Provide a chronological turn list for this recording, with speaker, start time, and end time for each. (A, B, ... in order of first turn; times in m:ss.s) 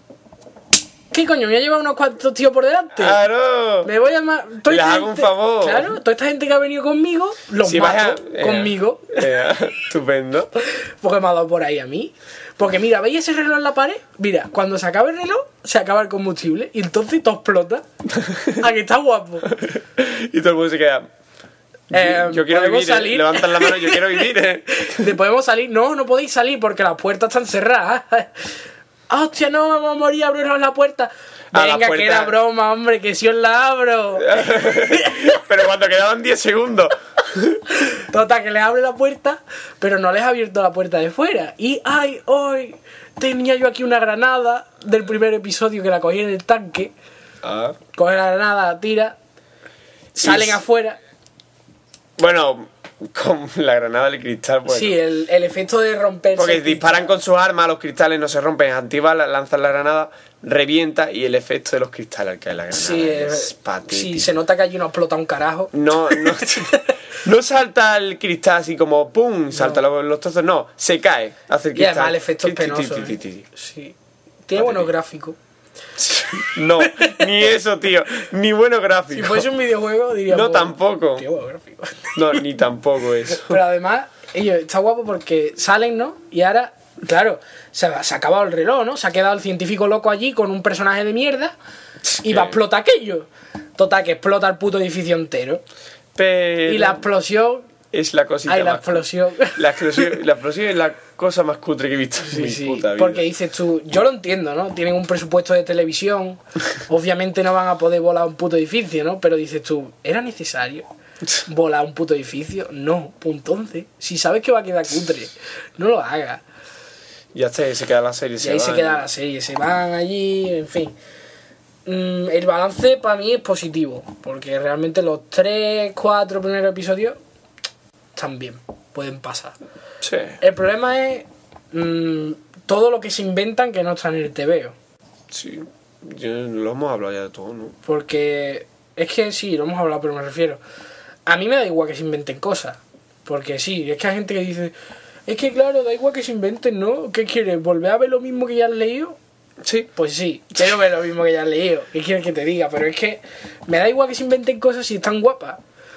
0:01.1-0:03.2 A
0:03.0-0:03.9 B
0:03.8-0:09.4 A
0:04.7-0:05.9 B
0:07.6-0:10.5 B
0:10.6-0:17.8 A
0:18.1-0:18.6 B
0:18.5-0:19.5 A
0:19.5-0:21.1 B
0:21.9-0:25.1 B
0:21.9-0:28.5 A
0:29.1-0:35.4 A
0:31.5-0:32.3 B
0:34.2-0:37.6 B
0:37.7-0:46.9 A
0:47.4-0:47.8 B
0:47.9-0:49.2 A
0:50.1-0:51.0 A
0:50.2-0:50.6 B
0:52.2-0:55.0 B
0:54.7-0:57.1 A
0:56.4-1:04.3 B
1:02.7-1:07.0 A
1:05.7-1:13.4 B
1:09.5-1:09.8 A
1:11.7-1:13.9 A
1:14.5-1:15.4 A
1:14.6-1:14.9 B
1:16.0-1:19.5 B
1:16.8-1:17.4 A
1:19.1-1:22.4 A
1:20.3-1:21.2 B
1:22.1-1:23.6 B
1:23.3-1:31.5 A
1:32.0-1:32.6 B
1:32.2-1:35.6 A
1:36.1-1:37.0 B
1:36.7-1:37.7 A
1:37.9-1:43.3 B
1:38.4-1:40.2 A
1:42.2-1:50.8 A
1:51.4-1:56.4 A
1:57.3-1:59.0 B
1:58.4-2:00.9 A
2:01.8-2:07.2 A
2:08.1-2:09.6 A
2:10.0-2:10.4 B
2:10.4-2:14.7 A
2:15.3-2:17.8 B
2:17.8-2:20.6 A
2:21.2-2:24.7 A
2:25.3-2:29.2 A
2:29.6-2:29.9 B
2:30.0-2:35.6 A